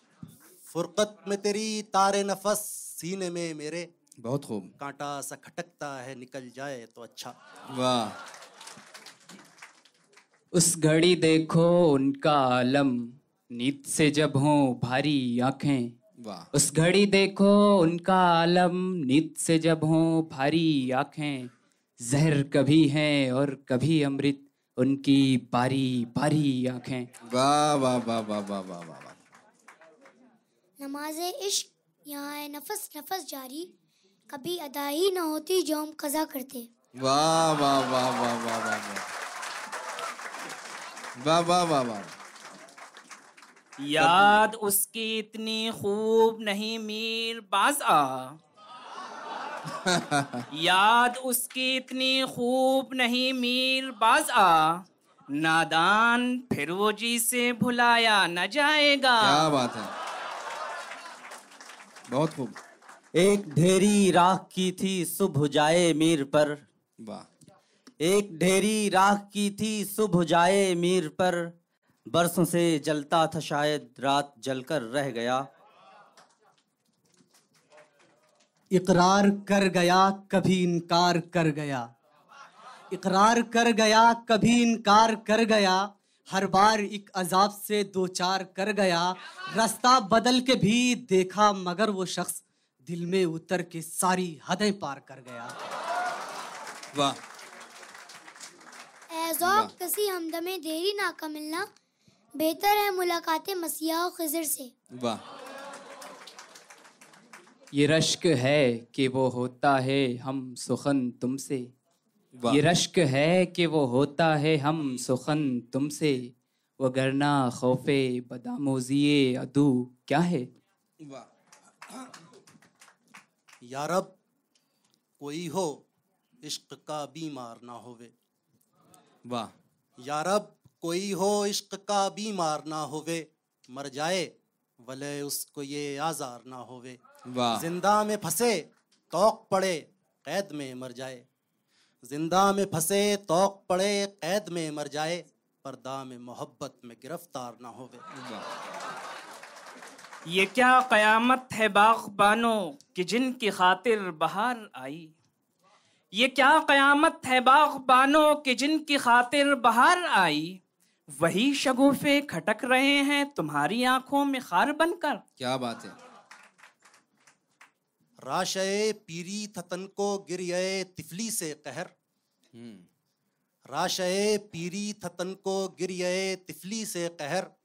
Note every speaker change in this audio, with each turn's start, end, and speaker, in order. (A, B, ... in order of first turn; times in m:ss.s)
0:00.7-0:03.9 A
0:04.2-0:04.7 B
0:04.8-0:07.3 A
0:07.7-0:08.2 B
0:10.5-0:15.9 C
0:16.2-0:16.5 B
0:16.5-0:21.5 C
0:22.0-0:27.1 C
0:27.2-0:29.2 B
0:30.8-0:33.7 D
0:34.3-0:36.7 D
0:37.0-0:39.1 B
0:41.2-0:42.1 B
0:43.8-0:48.3 E
0:44.0-0:44.4 B
0:49.8-0:50.4 B
0:50.5-0:54.8 E
0:55.3-0:59.5 E
0:59.2-0:59.9 B
1:02.1-1:02.6 B
1:03.1-1:06.6 F
1:07.0-1:07.3 B
1:08.0-1:11.5 F
1:12.1-1:15.5 F
1:18.8-1:21.8 G
1:22.9-1:35.5 G
1:36.9-1:37.2 B
1:39.1-1:41.7 D
1:39.4-1:39.7 B
1:42.4-1:44.7 D
1:44.9-1:45.2 B
1:47.7-1:51.7 C
1:52.3-1:52.6 B
1:52.5-2:00.5 C
2:01.0-2:01.3 B
2:03.6-2:04.1 A
2:05.2-2:05.8 A
2:06.4-2:08.1 A
2:09.3-2:09.5 B
2:10.0-2:17.0 A
2:17.3-2:17.7 B
2:17.5-2:21.2 A
2:22.0-2:28.0 A
2:28.2-2:28.5 B
2:30.3-2:35.1 E
2:36.2-2:40.6 E
2:41.2-2:45.2 E
2:45.4-2:46.0 B
2:48.2-2:51.9 A
2:52.5-2:52.9 B
2:53.7-2:57.5 A